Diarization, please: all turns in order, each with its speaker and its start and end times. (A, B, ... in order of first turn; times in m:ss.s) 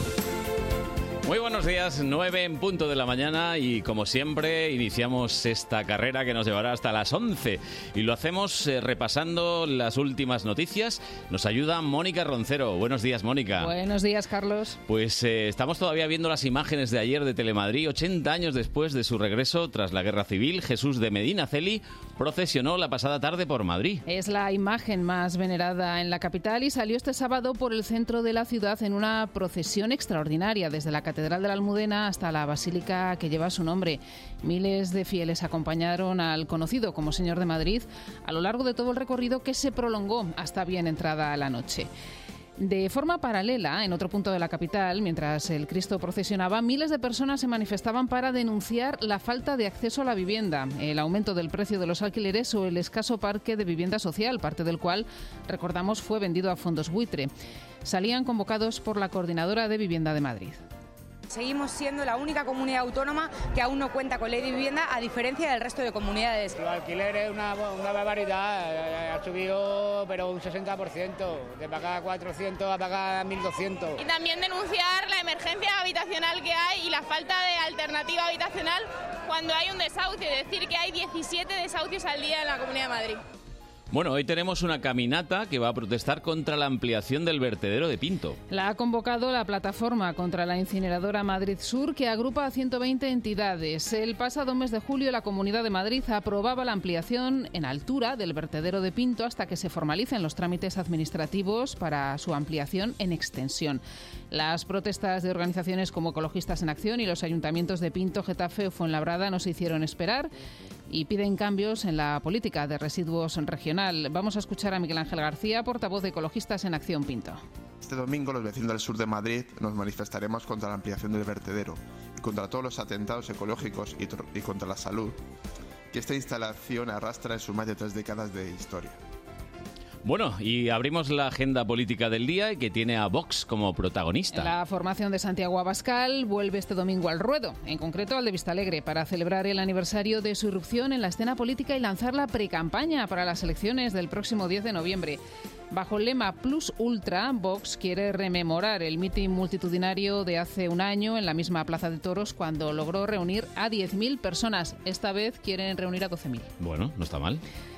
0:01.2-0:13.7 A
0:13.6-0:14.8 B
0:14.9-0:24.0 A
0:24.1-0:41.9 B
0:42.6-0:57.3 B
0:57.8-1:00.6 B
1:01.3-1:06.6 C
1:06.6-1:14.0 D
1:14.0-1:23.2 E
1:23.9-1:28.4 A
1:28.5-1:50.3 B
1:50.9-1:57.4 B
1:57.8-2:05.2 F
2:05.9-2:09.0 F
2:10.0-2:14.5 A
2:14.3-2:25.2 B
2:25.7-2:36.5 B
2:36.6-2:37.4 A